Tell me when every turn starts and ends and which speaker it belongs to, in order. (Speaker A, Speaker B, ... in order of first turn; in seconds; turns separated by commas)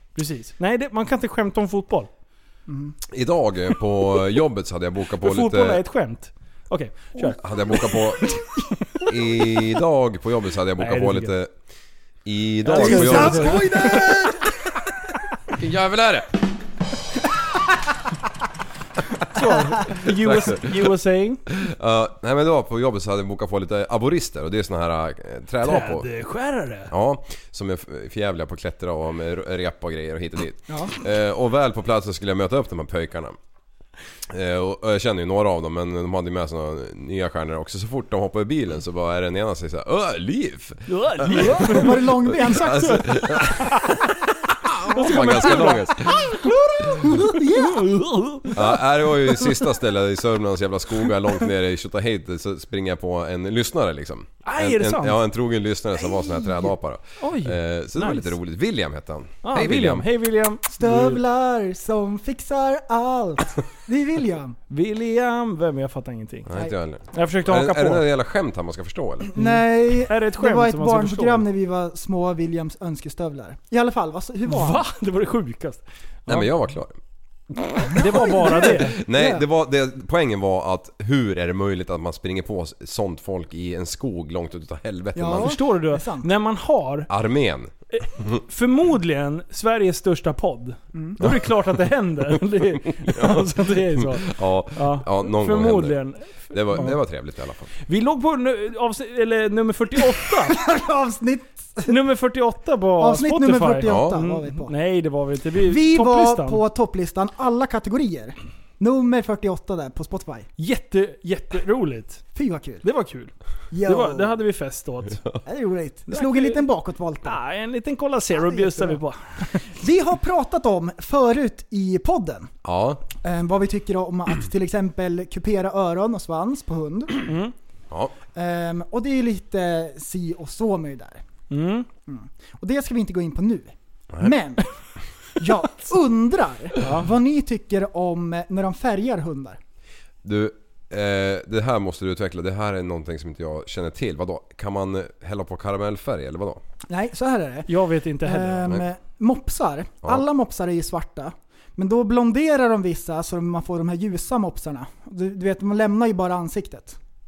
Speaker A: 0.2-2.1, Speaker B: 2.7-3.0, Speaker C: 3.1-5.8, Speaker A: 5.2-7.4, Speaker C: 7.4-8.5, Speaker C: 9.1-11.5, Speaker A: 10.8-11.3, Speaker C: 12.2-14.2, Speaker A: 12.6-14.0, Speaker B: 12.7-14.6, Speaker C: 15.5-16.4, Speaker A: 19.3-21.4, Speaker C: 19.8-20.9, Speaker C: 21.5-26.1, Speaker A: 25.6-26.9, Speaker C: 26.9-33.4, Speaker C: 34.3-44.0, Speaker A: 40.9-43.0, Speaker B: 41.3-43.4, Speaker C: 44.6-46.4, Speaker A: 44.9-48.6, Speaker B: 45.0-47.9, Speaker C: 48.5-60.1, Speaker A: 54.5-55.2, Speaker B: 56.0-56.7, Speaker A: 57.2-58.3, Speaker A: 59.4-61.2, Speaker B: 60.7-64.6, Speaker A: 64.7-66.5, Speaker C: 66.5-69.3, Speaker A: 67.1-68.0, Speaker B: 69.3-74.8, Speaker A: 69.4-71.5, Speaker A: 74.5-76.5, Speaker C: 76.3-77.0, Speaker A: 77.8-79.0, Speaker B: 77.9-79.4, Speaker C: 78.2-85.6, Speaker B: 85.2-86.3, Speaker A: 85.3-87.1, Speaker C: 87.1-88.4, Speaker A: 87.9-97.0, Speaker B: 90.9-91.2, Speaker C: 91.2-91.5, Speaker C: 92.3-97.7, Speaker A: 97.8-100.6, Speaker B: 100.5-102.0, Speaker A: 101.9-106.6, Speaker B: 103.0-104.7, Speaker C: 103.8-104.2, Speaker B: 105.6-110.5, Speaker A: 110.6-112.2, Speaker B: 112.3-112.8, Speaker A: 112.8-113.3, Speaker B: 113.7-114.3, Speaker A: 113.8-115.2, Speaker B: 115.5-117.4, Speaker A: 116.1-116.6, Speaker A: 117.2-119.6, Speaker B: 118.3-119.0, Speaker B: 119.7-122.5, Speaker C: 122.6-123.0, Speaker B: 123.2-127.3, Speaker A: 127.3-127.5, Speaker B: 128.3-131.2, Speaker A: 131.5-131.9, Speaker B: 132.1-134.7, Speaker B: 135.4-139.6, Speaker A: 136.8-137.1, Speaker C: 140.2-146.6, Speaker B: 146.9-147.7, Speaker A: 147.7-148.8, Speaker B: 148.2-157.0